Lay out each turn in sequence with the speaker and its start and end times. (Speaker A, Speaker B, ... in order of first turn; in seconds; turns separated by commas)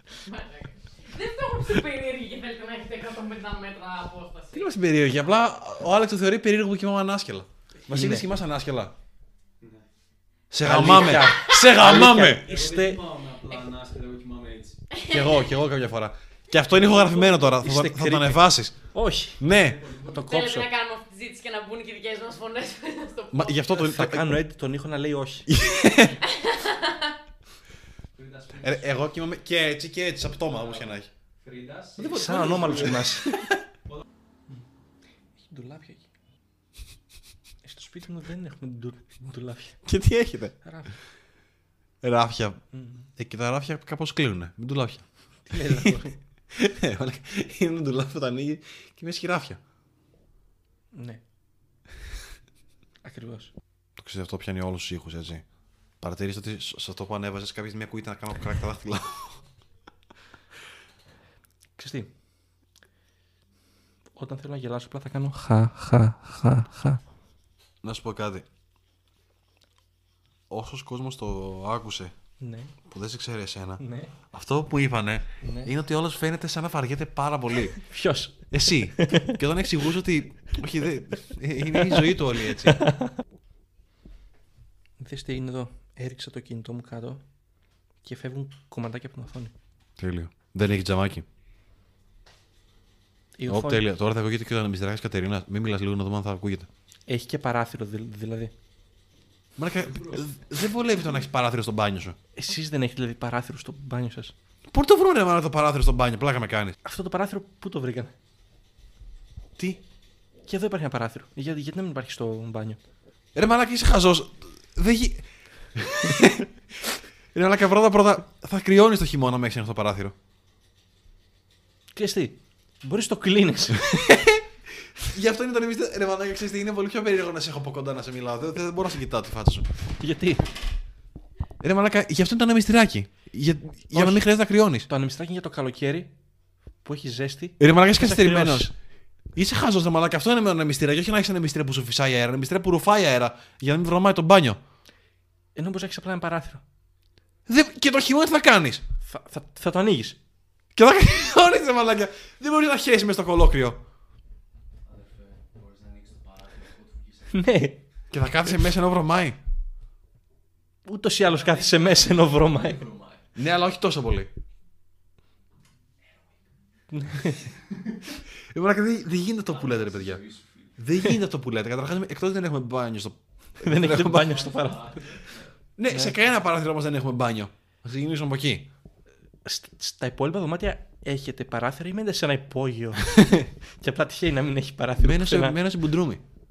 Speaker A: 0.2-4.7, Speaker B: 4.5-8.9, Speaker C: 7.9-8.2, Speaker D: 9.6-9.8, Speaker B: 10.5-12.5, Speaker C: 10.6-13.0, Speaker D: 12.3-14.8, Speaker A: 14.9-15.3, Speaker B: 15.1-18.8, Speaker D: 16.9-17.2, Speaker C: 17.0-19.4, Speaker B: 19.4-20.4, Speaker D: 19.5-20.1, Speaker A: 20.0-23.8, Speaker C: 20.2-20.7, Speaker B: 23.3-24.3, Speaker C: 23.8-25.5, Speaker B: 25.5-26.2, Speaker A: 26.3-27.1, Speaker D: 28.1-28.9, Speaker B: 28.6-31.1, Speaker D: 30.5-33.0, Speaker C: 32.0-33.3, Speaker B: 32.0-33.5, Speaker C: 35.4-36.0, Speaker C: 37.6-39.8, Speaker B: 39.8-40.5, Speaker C: 40.6-40.9, Speaker B: 42.0-42.6, Speaker C: 42.7-43.1, Speaker B: 43.2-46.0, Speaker C: 45.5-46.2, Speaker B: 46.5-49.6, Speaker C: 50.9-51.2, Speaker C: 53.0-53.5, Speaker B: 54.0-55.4, Speaker B: 56.0-59.4, Speaker C: 61.8-62.1, Speaker C: 64.2-67.0, Speaker B: 67.8-68.5, Speaker B: 70.5-72.1, Speaker C: 72.4-72.7, Speaker B: 72.9-77.8, Speaker C: 73.8-74.1, Speaker C: 75.4-75.7, Speaker C: 77.8-79.4, Speaker B: 78.5-82.8, Speaker C: 81.7-83.1, Speaker C: 85.0-87.2, Speaker C: 88.0-89.5, Speaker B: 90.0-91.2, Speaker C: 93.4-93.8, Speaker B: 93.5-96.7, Speaker C: 97.1-98.5, Speaker B: 99.6-102.2, Speaker D: 99.9-100.2, Speaker C: 102.3-104.3, Speaker B: 104.7-106.8, Speaker C: 106.8-108.1, Speaker C: 110.5-112.8, Speaker B: 113.3-120.1, Speaker C: 121.9-123.9, Speaker B: 123.7-124.4, Speaker B: 125.0-129.7, Speaker C: 130.0-130.5, Speaker B: 131.6-134.9, Speaker C: 133.9-134.2, Speaker C: 134.9-136.1, Speaker C: 136.8-138.7, Speaker B: 137.6-138.7, Speaker B: 139.3-144.6, Speaker C: 145.6-146.6, Speaker B: 147.5-148.8, Speaker C: 149.0-150.2, Speaker B: 150.7-153.8, Speaker D: 154.8-157.5, Speaker C: 157.3-157.8, Speaker B: 158.1-159.4, Speaker C: 160.8-162.8, Speaker D: 161.3-163.2, Speaker B: 163.3-164.3, Speaker C: 166.9-167.4, Speaker B: 168.5-170.2, Speaker D: 169.5-170.7, Speaker B: 170.8-174.3, Speaker C: 173.6-175.1, Speaker D: 173.9-175.5, Speaker B: 175.8-178.7, Speaker C: 175.9-176.1, Speaker C: 179.4-183.2, Speaker B: 183.1-183.4, Speaker C: 183.8-185.6, Speaker B: 185.0-186.2